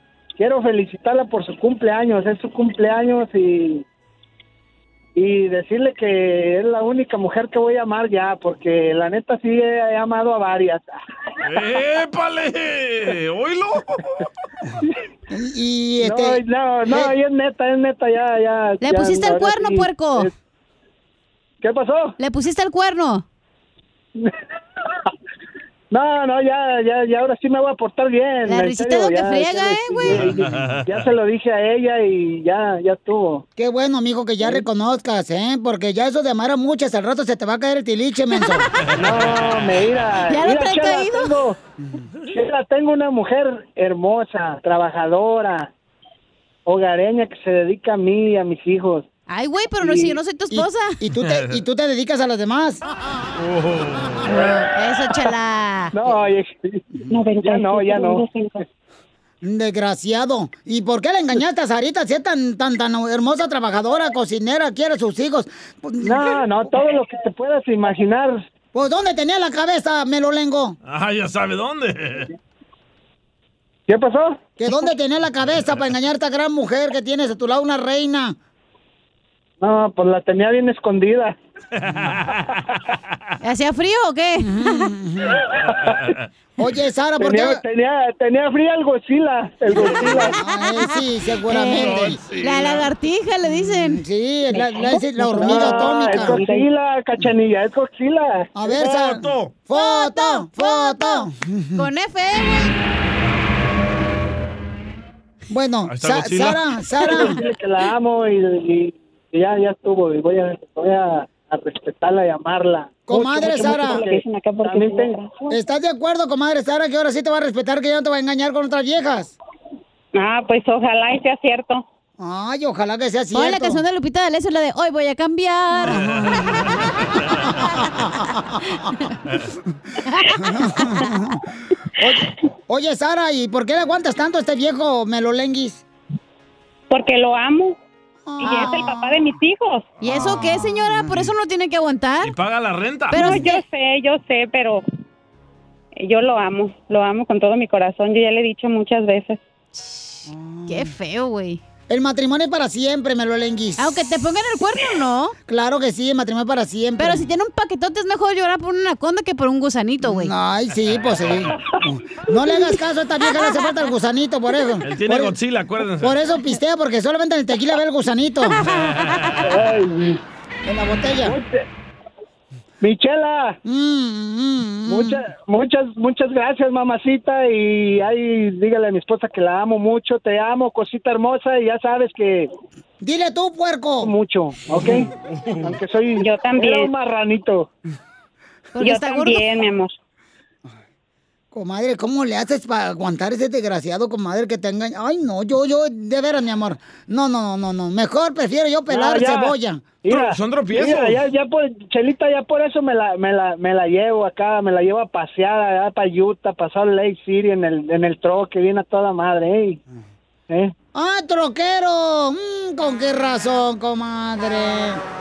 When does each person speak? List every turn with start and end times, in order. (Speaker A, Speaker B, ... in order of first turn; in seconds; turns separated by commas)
Speaker A: 0.4-3.8, Speaker A: 5.2-10.9, Speaker B: 11.4-14.3, Speaker C: 15.3-17.1, Speaker A: 16.0-20.3, Speaker D: 18.8-20.3, Speaker A: 21.6-22.2, Speaker D: 22.2-23.2, Speaker A: 25.9-33.4, Speaker D: 28.5-30.3, Speaker B: 30.1-30.8, Speaker C: 33.6-38.7, Speaker A: 39.0-41.6, Speaker D: 40.3-41.4, Speaker A: 42.3-45.7, Speaker A: 46.7-49.1, Speaker D: 49.3-51.0, Speaker A: 49.8-50.2, Speaker C: 50.5-52.8, Speaker B: 51.2-51.6, Speaker B: 53.4-54.5, Speaker D: 54.7-56.0, Speaker A: 55.9-56.8, Speaker A: 57.4-58.3, Speaker C: 59.4-66.4, Speaker A: 66.0-68.4, Speaker C: 68.7-70.8, Speaker B: 70.9-72.3, Speaker A: 73.9-74.4, Speaker C: 74.6-78.4, Speaker A: 79.6-81.4, Speaker B: 81.8-82.4, Speaker D: 83.4-84.9, Speaker C: 84.4-85.4, Speaker A: 85.7-86.2, Speaker B: 85.9-86.2, Speaker C: 86.6-87.6, Speaker A: 87.2-90.4, Speaker C: 90.1-92.2, Speaker D: 91.5-94.0, Speaker B: 91.6-92.8, Speaker C: 93.7-96.4, Speaker A: 95.4-98.5, Speaker C: 98.5-101.9, Speaker B: 98.7-99.5, Speaker D: 99.7-102.7, Speaker C: 105.5-107.4, Speaker B: 105.9-106.6, Speaker A: 107.1-115.2, Speaker C: 113.1-114.0, Speaker C: 115.5-119.3, Speaker E: 120.2-121.8, Speaker C: 122.2-123.8, Speaker D: 123.3-126.1, Speaker B: 125.9-127.4, Speaker C: 128.0-128.8, Speaker D: 130.2-131.0, Speaker C: 130.4-131.4, Speaker C: 132.0-135.8, Speaker E: 136.9-137.8, Speaker C: 138.3-139.3, Speaker E: 138.6-139.8, Speaker D: 140.0-142.3, Speaker C: 140.1-141.1, Speaker B: 142.2-143.2, Speaker D: 143.1-143.6, Speaker E: 143.2-144.8, Speaker E: 146.0-149.4, Speaker D: 149.8-151.6, Speaker C: 150.3-150.9, Speaker C: 151.9-153.9, Speaker D: 153.8-155.3, Speaker C: 155.5-157.3, Speaker D: 157.0-160.3, Speaker C: 160.0-165.3, Speaker B: 164.8-166.2, Speaker C: 166.0-168.6, Speaker A: 169.4-170.2, Speaker C: 170.7-171.4, Speaker A: 171.2-171.6, Speaker A: 172.8-173.6, Speaker C: 173.7-175.2, Speaker A: 174.9-182.5, Speaker C: 183.0-184.1, Speaker A: 184.0-185.1, Speaker A: 185.6-187.7, Speaker D: 188.7-189.5, Speaker E: 189.0-189.8, Speaker C: 191.5-199.8, Speaker A: 198.9-209.8, Speaker B: 200.1-201.2, Speaker C: 210.9-215.0